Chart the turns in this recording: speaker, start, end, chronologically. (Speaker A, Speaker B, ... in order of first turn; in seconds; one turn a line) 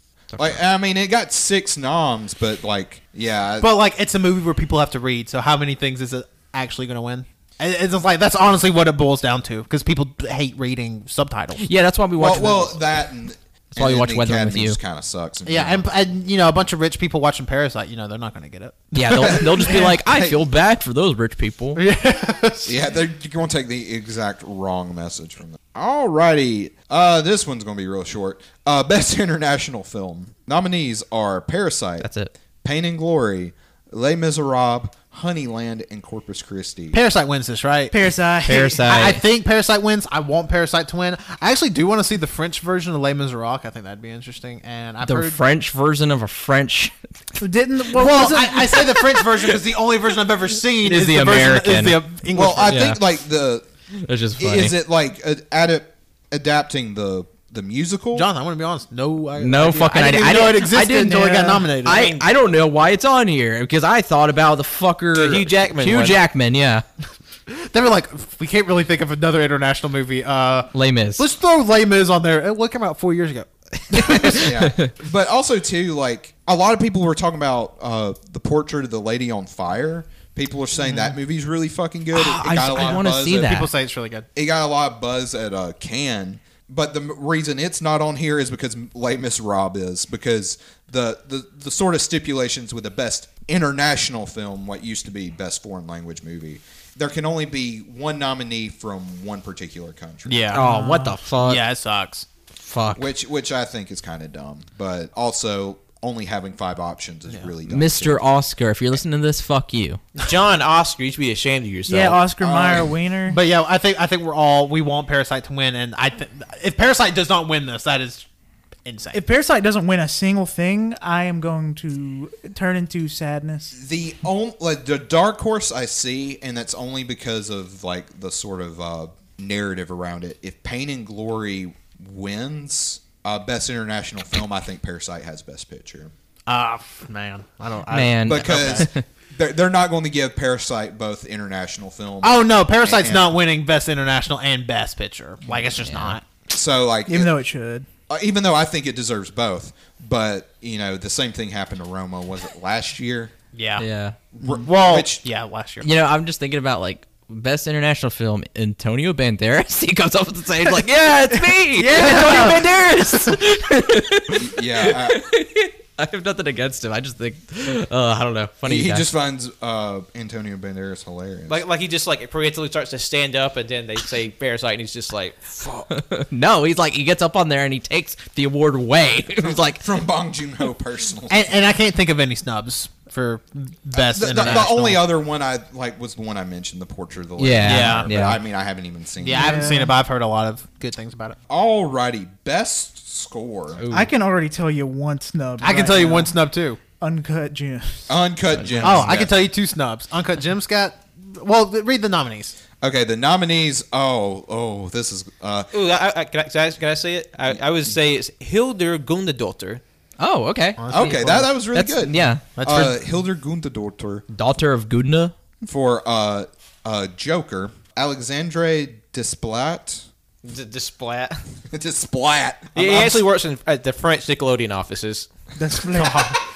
Speaker A: 0.4-3.7
Speaker B: 3.6-11.7
Speaker C: 11.6-12.8
Speaker A: 12.2-15.9
Speaker C: 13.7-14.8
Speaker B: 15.4-19.9
Speaker C: 18.9-21.8
Speaker A: 19.2-20.4
Speaker B: 21.8-22.8
Speaker A: 22.6-32.1
Speaker C: 32.0-32.3
Speaker A: 32.6-37.0
Speaker B: 36.9-38.0
Speaker D: 37.9-38.9
Speaker C: 38.5-39.2
Speaker B: 38.9-45.4
Speaker C: 45.0-47.0
Speaker D: 47.4-48.9
Speaker B: 47.9-52.8
Speaker C: 50.8-52.0
Speaker A: 52.3-53.7
Speaker C: 52.6-53.0
Speaker C: 54.0-54.8
Speaker A: 54.4-58.3
Speaker B: 58.1-62.2
Speaker C: 59.4-66.8
Speaker D: 61.0-61.7
Speaker E: 65.1-66.2
Speaker B: 67.5-74.5
Speaker C: 70.7-71.2
Speaker C: 74.0-74.9
Speaker A: 74.3-83.7
Speaker C: 82.1-83.7
Speaker B: 83.2-84.3
Speaker A: 84.3-100.5
Speaker B: 100.3-100.7
Speaker C: 100.5-101.6
Speaker D: 100.5-101.2
Speaker B: 101.4-102.3
Speaker C: 102.6-103.1
Speaker A: 102.9-108.2
Speaker C: 107.7-110.0
Speaker E: 110.2-112.2
Speaker D: 111.9-113.4
Speaker A: 112.4-112.9
Speaker B: 113.3-118.3
Speaker B: 118.9-119.2
Speaker D: 119.1-123.7
Speaker A: 123.7-136.1
Speaker B: 136.5-138.9
Speaker C: 137.9-139.0
Speaker A: 138.2-143.3
Speaker B: 142.2-146.2
Speaker C: 145.8-146.2
Speaker A: 146.5-147.3
Speaker D: 147.1-147.9
Speaker A: 148.1-153.3
Speaker B: 153.5-155.9
Speaker C: 153.8-154.2
Speaker A: 154.4-155.2
Speaker C: 155.8-169.1
Speaker B: 161.7-162.7
Speaker D: 161.9-162.6
Speaker A: 164.3-165.2
Speaker A: 168.7-171.6
Speaker E: 171.5-175.9
Speaker C: 175.9-179.8
Speaker A: 179.4-181.4
Speaker B: 181.3-185.0
Speaker A: 183.9-189.7
Speaker C: 187.4-188.4
Speaker B: 187.6-188.1
Speaker B: 189.2-191.4
Speaker D: 189.3-189.9
Speaker A: 191.5-193.8
Speaker C: 193.8-194.1
Speaker D: 193.9-196.4
Speaker B: 195.6-196.8
Speaker D: 197.0-198.1
Speaker A: 198.1-199.3
Speaker C: 198.5-199.1
Speaker B: 198.8-202.6
Speaker A: 202.8-205.7
Speaker E: 205.7-209.8
Speaker C: 210.2-211.1
Speaker B: 210.8-211.5
Speaker A: 210.9-214.2
Speaker C: 211.7-212.6
Speaker B: 212.6-213.0
Speaker C: 214.3-215.3
Speaker A: 215.6-220.1
Speaker E: 220.4-221.4
Speaker A: 221.7-223.2
Speaker E: 222.8-225.3
Speaker D: 225.6-226.4
Speaker A: 226.0-226.3